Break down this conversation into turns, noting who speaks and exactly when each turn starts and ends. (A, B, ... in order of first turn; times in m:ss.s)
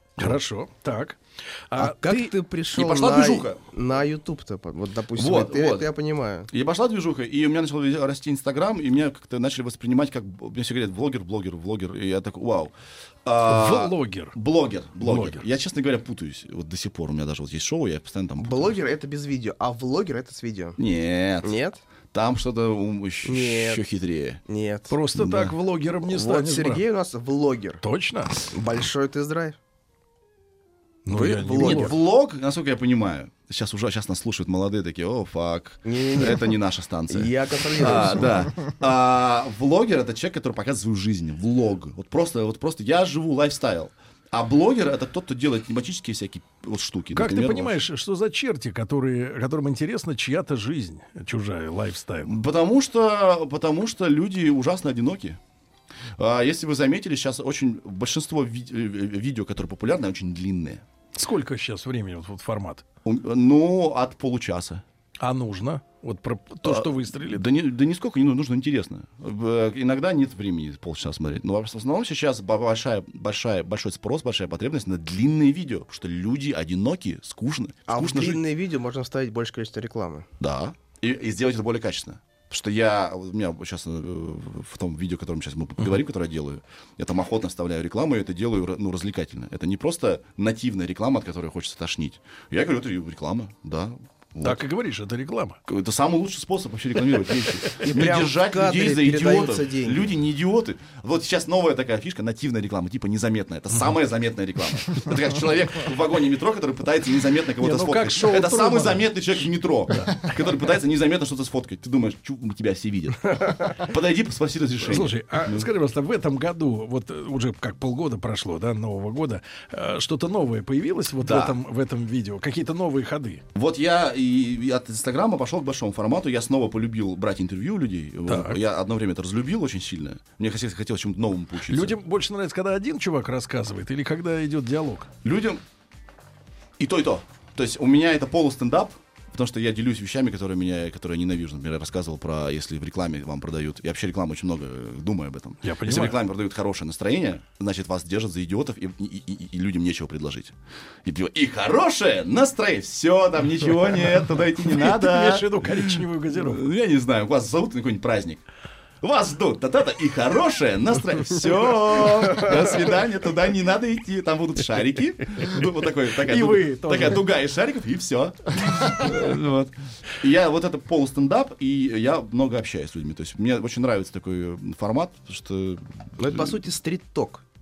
0:00.2-0:01.2 A
0:01.7-0:02.3 A
0:01.8-0:06.5 B
0:02.7-0:03.6 C
0:05.1-0:05.9 C
0:06.5-0:12.7 C
0:13.2-0:18.8 C
0:13.4-0:14.3 A
0:15.0-0:15.4 A
0:18.4-0:20.8 B
0:20.8-0:21.6 C
0:21.4-0:21.8 B
0:22.1-0:24.4 C
0:23.2-0:23.8 B
0:24.5-0:24.9 B
0:24.9-0:26.8 A
0:25.1-0:25.5 C
0:26.0-0:27.8 B
0:27.8-0:28.3 A
0:28.4-0:29.6 B
0:31.0-0:32.0 A
0:31.1-0:32.0 B
0:31.5-0:47.8 C
0:35.8-0:36.5 B
0:37.1-0:38.3 B
0:47.1-0:52.4 A
0:52.2-0:55.4 C
0:56.2-1:00.8 C
1:01.1-1:02.8 A
1:03.0-1:04.8 C
1:05.2-1:07.4 A
1:06.6-1:18.4 C
1:17.9-1:20.3 B
1:20.4-1:34.6 C
1:34.4-1:35.6 A
1:35.6-1:55.7 C
1:37.8-1:40.2 B
1:47.6-1:49.1 A
1:49.9-1:50.3 A
1:54.8-2:03.4 A
2:01.2-2:01.6 C
2:03.5-2:12.0 C
2:08.3-2:08.6 A
2:11.7-2:15.1 A
2:15.2-2:15.6 C
2:16.8-2:38.4 C
2:25.6-2:26.2 A
2:34.6-2:36.6 A
2:39.0-2:56.6 C
2:46.2-2:47.3 A
2:56.2-2:57.4 B